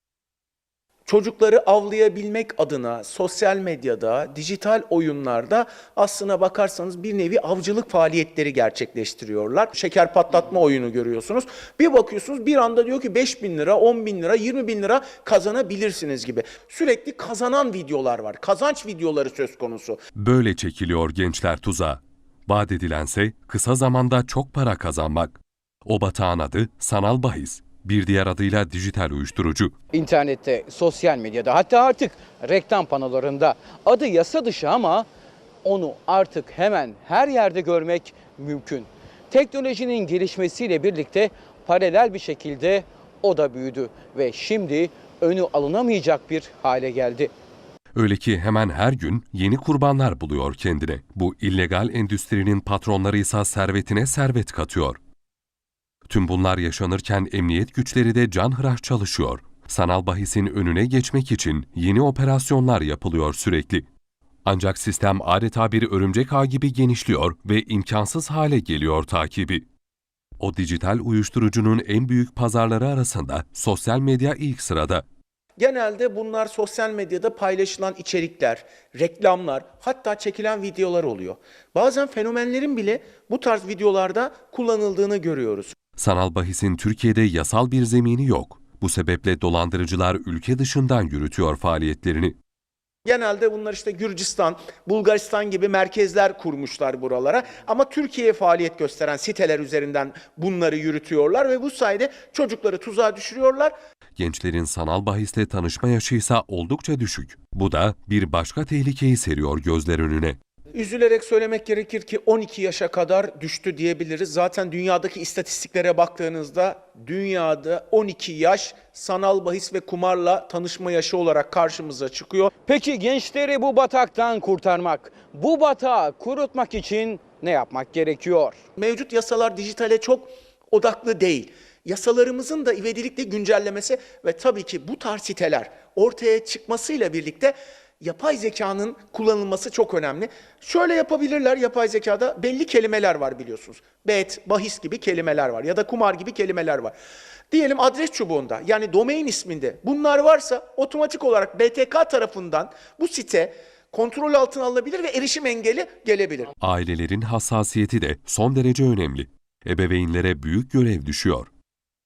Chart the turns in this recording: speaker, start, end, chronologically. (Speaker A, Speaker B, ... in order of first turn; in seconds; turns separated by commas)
Speaker A: 1.1-20.0, Speaker B: 20.1-29.7, Speaker C: 29.9-35.1, Speaker C: 35.6-47.3, Speaker B: 47.9-55.0, Speaker B: 56.1-63.9, Speaker B: 64.4-69.7, Speaker B: 70.4-75.0, Speaker A: 75.6-85.7, Speaker B: 86.0-92.3, Speaker A: 93.0-103.7, Speaker B: 104.2-110.4, Speaker A: 110.7-122.5, Speaker C: 122.6-128.6, Speaker A: 128.8-146.9, Speaker A: 147.5-156.5, Speaker B: 156.6-161.5